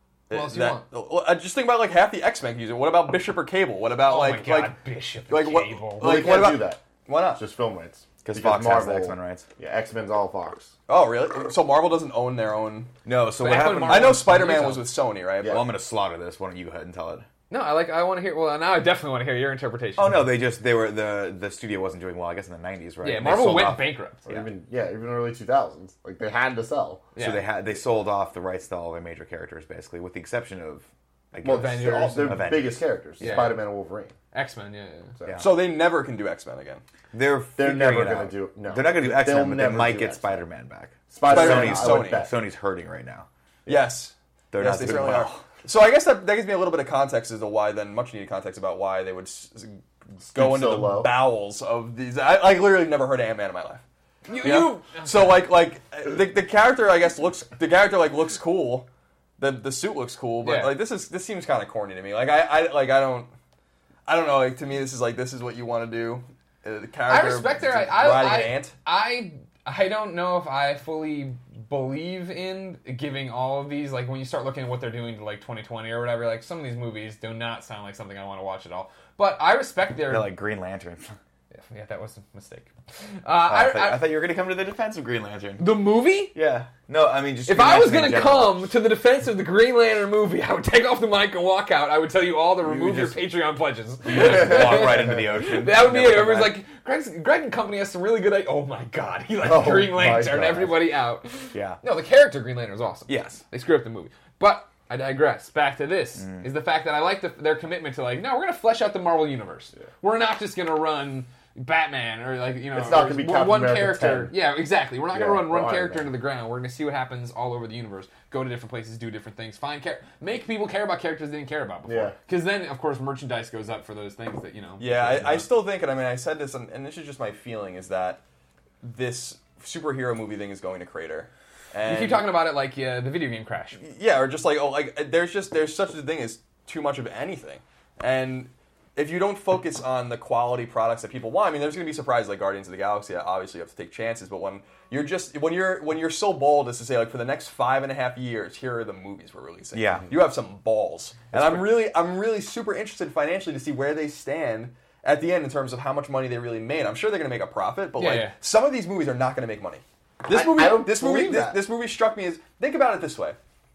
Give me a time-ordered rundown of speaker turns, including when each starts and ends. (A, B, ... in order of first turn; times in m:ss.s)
0:00.3-0:04.8 A
0:00.3-0:00.8 B
0:04.1-0:06.2 B
0:05.3-0:07.4 A
0:06.0-0:06.8 C
0:07.3-0:10.7 C
0:08.2-0:09.5 D
0:10.9-0:12.9 A
0:13.0-0:14.2 D
0:13.4-0:14.9 B
0:13.7-0:15.6 A
0:15.4-0:17.3 D
0:17.5-0:20.3 B
0:20.0-0:24.5 D
0:23.0-0:24.2 B
0:24.3-0:27.1 C
0:27.2-0:27.5 B
0:27.2-0:33.6 D
0:31.4-0:34.2 C
0:31.4-0:32.6 B
0:33.2-0:33.6 B
0:34.3-0:35.1 B
0:35.2-0:35.5 C
0:35.3-0:35.5 D
0:35.4-0:36.8 A
0:37.1-0:43.3 D
0:37.6-0:40.4 C
0:41.1-0:42.3 C
0:41.2-0:42.3 A
0:43.7-0:53.8 A
0:44.5-0:45.4 D
0:50.2-0:51.1 C
0:54.3-0:55.3 B
0:54.4-1:03.3 A
1:00.4-1:00.8 B
1:04.1-1:08.7 A
1:07.1-1:20.4 B
1:20.1-1:21.2 D
1:21.5-1:22.7 B
1:23.2-1:24.1 B
1:23.5-1:25.8 D
1:25.6-1:26.4 B
1:26.3-1:28.7 D
1:27.5-2:05.5 B
1:32.7-1:33.1 D
1:34.1-1:36.6 D
1:34.2-1:35.0 C
1:39.4-1:40.9 C
1:41.5-1:41.8 D
1:43.1-1:43.4 D
1:46.2-1:46.5 D
1:52.7-1:54.4 C
1:55.1-1:56.1 C
2:01.9-2:02.2 C
2:04.8-2:08.2 A
2:08.8-2:12.3 A
2:11.8-2:13.8 B
2:13.8-2:43.4 A
2:29.7-2:30.1 D
2:31.3-2:31.8 D
2:38.0-2:38.4 B
2:40.3-2:41.6 C